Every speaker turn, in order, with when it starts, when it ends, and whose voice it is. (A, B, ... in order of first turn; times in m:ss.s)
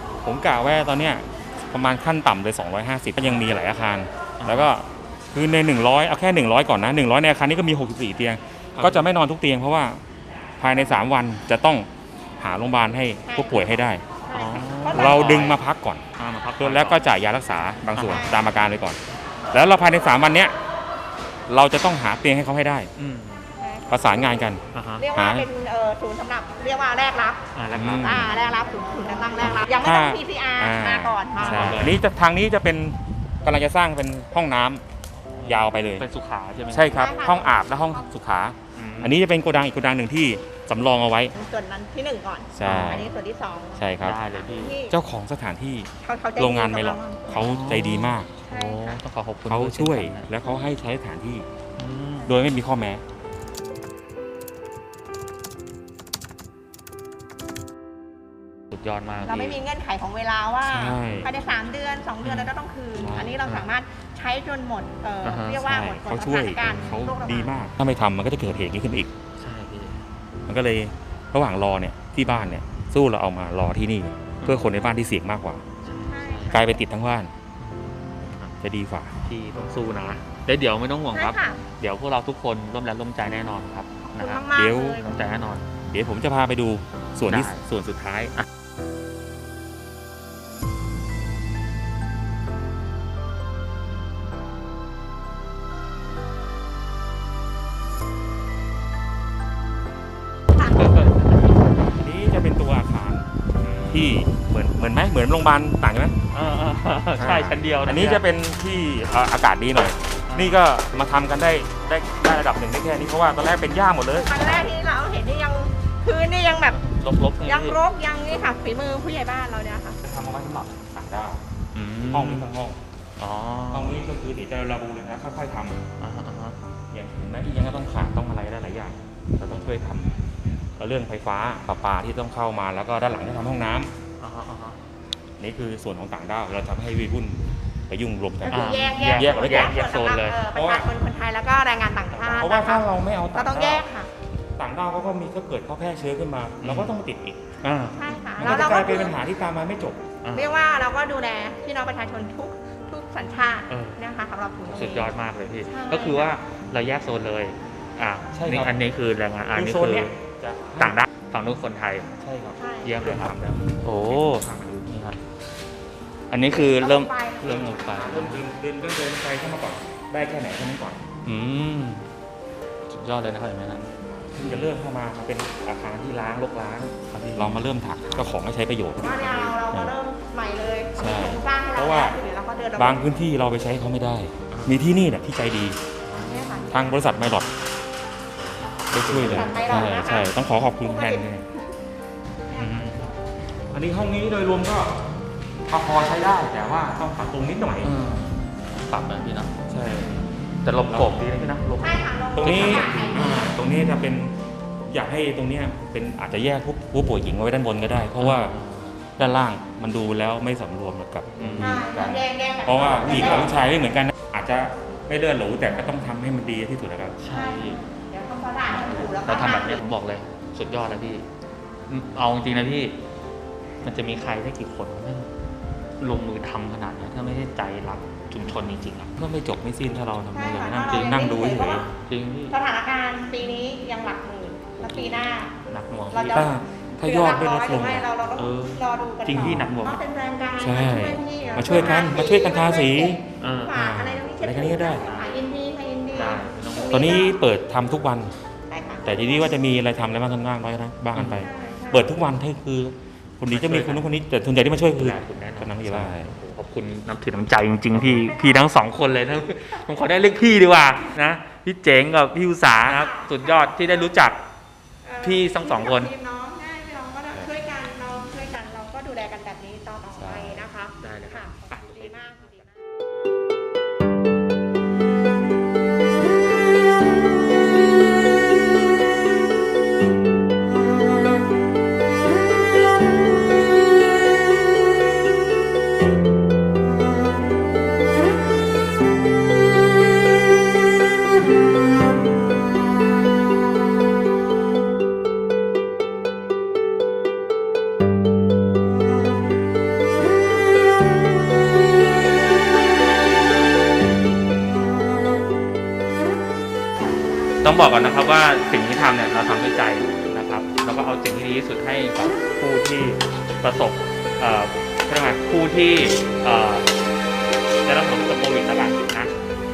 0:00.2-0:10.0 A
0:04.4-0:04.7 B
0:08.8-0:09.1 B
0:10.6-0:11.9 A
0:12.4-0:14.0 A
0:13.3-0:15.5 C
0:14.3-0:15.6 B
0:14.9-0:16.0 A
0:16.2-0:17.0 B
0:16.6-0:19.0 A
0:18.0-0:18.3 B
0:18.1-0:18.4 C
0:19.5-0:20.6 A
0:21.5-0:22.9 A
0:23.0-0:23.5 B
0:23.6-0:24.2 C
0:23.9-0:24.6 A
0:24.7-0:25.1 B
0:25.0-0:27.4 C
0:25.1-0:25.5 A
0:27.5-0:28.3 B
0:27.7-0:28.3 A
0:28.0-0:31.8 C
0:29.5-0:34.8 A
0:31.4-0:32.0 B
0:35.4-0:37.1 B
0:35.5-0:36.1 A
0:36.7-0:41.3 A
0:36.9-0:38.0 C
0:38.8-0:39.2 B
0:41.3-0:45.0 C
0:42.5-0:43.1 A
0:42.6-0:43.1 B
0:43.8-0:44.2 A
0:44.0-0:44.8 B
0:44.9-0:48.3 A
0:46.0-0:47.3 C
0:47.3-0:50.3 B
0:48.5-0:49.0 C
0:49.5-0:51.5 A
0:51.8-0:52.3 B
0:52.3-0:53.0 A
0:58.7-0:59.6 B
0:59.2-1:07.5 C
1:00.7-1:01.3 A
1:02.2-1:02.5 B
1:03.0-1:03.4 A
1:05.2-1:05.6 B
1:05.6-1:09.1 A
1:09.4-1:10.0 B
1:10.5-1:15.6 A
1:14.4-1:14.7 B
1:15.8-1:16.6 B
1:16.1-1:16.7 C
1:16.5-1:17.3 A
1:17.6-1:18.6 B
1:18.6-1:19.2 A
1:19.2-1:24.4 B
1:21.1-1:21.6 C
1:24.1-1:25.1 C
1:24.5-1:25.0 A
1:25.0-1:25.7 B
1:25.9-1:27.5 A
1:27.2-1:28.4 B
1:40.6-1:41.7 B
1:41.8-1:43.3 A
1:43.6-1:44.2 B
1:43.9-1:46.2 A
1:46.3-1:48.2 B
1:47.2-1:54.6 A
1:50.3-1:50.6 B
1:54.2-1:56.8 C
1:56.7-1:57.8 B
1:57.4-2:00.0 C
2:00.0-2:01.4 A
2:01.7-2:02.5 B
2:02.1-2:02.8 A
2:03.2-2:04.0 B
2:03.7-2:05.8 A
2:06.0-2:06.6 B
2:06.9-2:10.1 A
2:10.8-2:13.9 A
2:14.2-2:14.8 B
2:15.4-2:19.8 A
2:18.4-2:24.1 C
2:18.5-2:20.4 B
2:20.5-2:20.9 A
2:22.1-2:22.5 B
2:22.4-2:23.9 A
2:24.6-2:27.5 A
2:26.6-2:27.0 B
2:27.6-2:28.6 B
2:27.9-2:29.2 C
2:28.4-2:30.0 A
2:30.2-2:30.6 B
2:30.3-2:35.1 C
2:33.7-2:34.0 B
2:34.7-2:40.1 B
2:35.6-2:36.4 C
2:38.3-2:38.7 A
2:39.5-2:41.0 A
2:40.8-2:42.1 B
2:42.2-2:44.9 A
2:42.6-2:43.0 C
2:42.8-2:45.2 B
2:46.3-2:48.4 B
2:46.5-2:48.2 C
2:47.4-2:51.0 A
2:51.2-2:52.1 B
2:52.9-2:53.9 B
2:54.3-3:00.0 A
2:57.1-2:57.6 B
2:59.0-3:03.2 C
3:01.0-3:02.2 A
3:02.8-3:05.8 A
3:04.5-3:04.8 B
3:06.1-3:07.1 C
3:06.1-3:06.5 B
3:06.7-3:07.5 A
3:08.5-3:10.1 B
3:08.9-3:11.4 A
3:09.2-3:11.7 C
3:12.5-3:12.9 C
3:12.5-3:13.0 B
3:13.7-3:15.0 A
3:15.7-3:18.0 A
3:17.8-3:19.6 B
3:19.7-3:20.2 A
3:20.6-3:23.2 B
3:20.9-3:21.2 A
3:21.8-3:23.4 C
3:22.4-3:28.6 A
3:28.2-3:29.0 B
3:29.2-3:37.2 A
3:31.3-3:32.2 B
3:31.6-3:33.6 C
3:37.2-3:37.8 B
3:37.3-3:39.9 C
3:38.7-3:41.3 B
3:41.9-3:43.0 B
3:43.8-3:45.3 B
3:46.0-3:49.1 B
3:49.2-3:51.9 A
3:50.3-3:51.8 C
3:50.9-3:51.4 B
3:51.9-3:52.5 B
3:52.5-3:55.5 C
3:54.9-3:56.5 B
3:56.1-4:07.4 C
3:56.3-3:58.1 A
3:58.4-4:00.0 B
3:59.3-3:59.7 A
4:00.6-4:03.2 A
4:01.5-4:02.0 B
4:03.4-4:03.8 B
4:03.7-4:05.1 A
4:05.0-4:05.4 B
4:06.1-4:07.1 B
4:06.9-4:08.3 A
4:08.7-4:09.6 C
4:09.0-4:16.3 A
4:11.2-4:11.4 B
4:11.4-4:12.2 C
4:13.5-4:14.1 B
4:15.0-4:24.4 B
4:18.3-4:18.7 C
4:22.8-4:24.1 C
4:25.0-4:32.7 C
4:25.2-4:26.1 B
4:30.2-4:30.6 A
4:31.0-4:32.2 B
5:07.6-5:16.9 B
5:17.8-5:19.3 B